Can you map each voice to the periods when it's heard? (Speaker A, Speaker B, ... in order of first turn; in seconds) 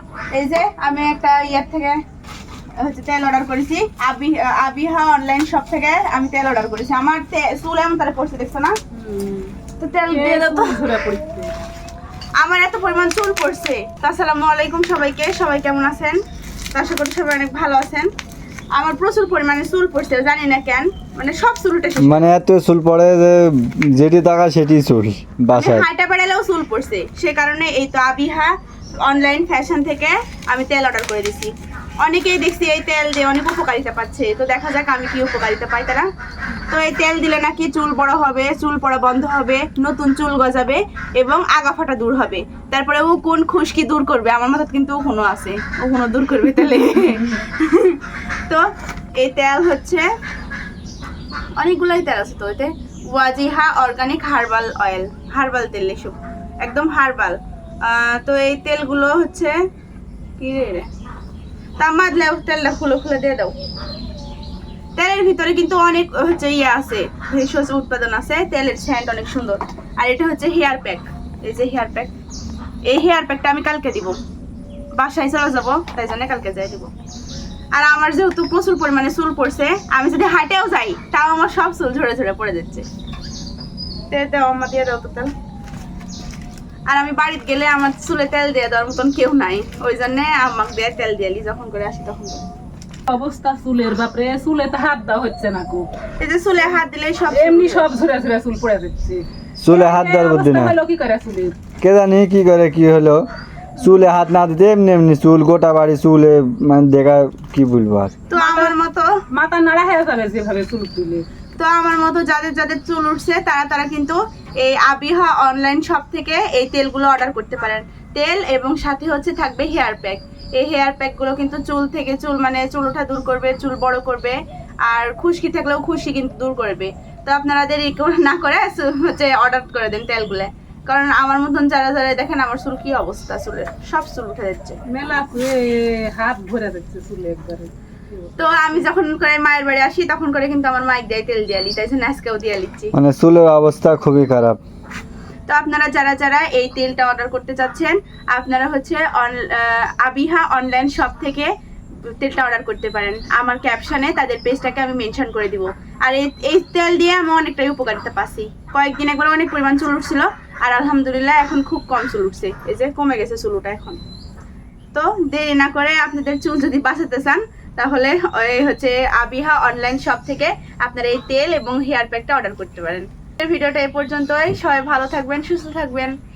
Speaker A: 0.3-2.0, 2.8-8.7, 9.8-10.8, 12.4-16.2, 16.7-18.1, 18.7-22.2, 25.5-31.5, 32.0-36.1, 36.7-48.6, 49.2-50.0, 51.6-59.6, 60.4-60.9, 61.8-63.5, 65.0-72.1, 72.9-74.2, 75.0-76.9, 77.7-82.8, 84.1-85.3, 86.9-92.4, 96.2-97.9, 108.3-109.1, 111.6-134.8, 138.4-142.9, 145.5-151.5, 152.1-164.0, 164.9-176.1
Speaker B: 8.9-9.6, 10.1-11.5, 93.1-95.9, 97.3-101.5, 108.3-108.8, 109.3-111.2, 134.9-138.7
Speaker C: 22.0-25.9, 99.6-100.8, 101.8-103.2, 103.8-108.2, 142.9-144.6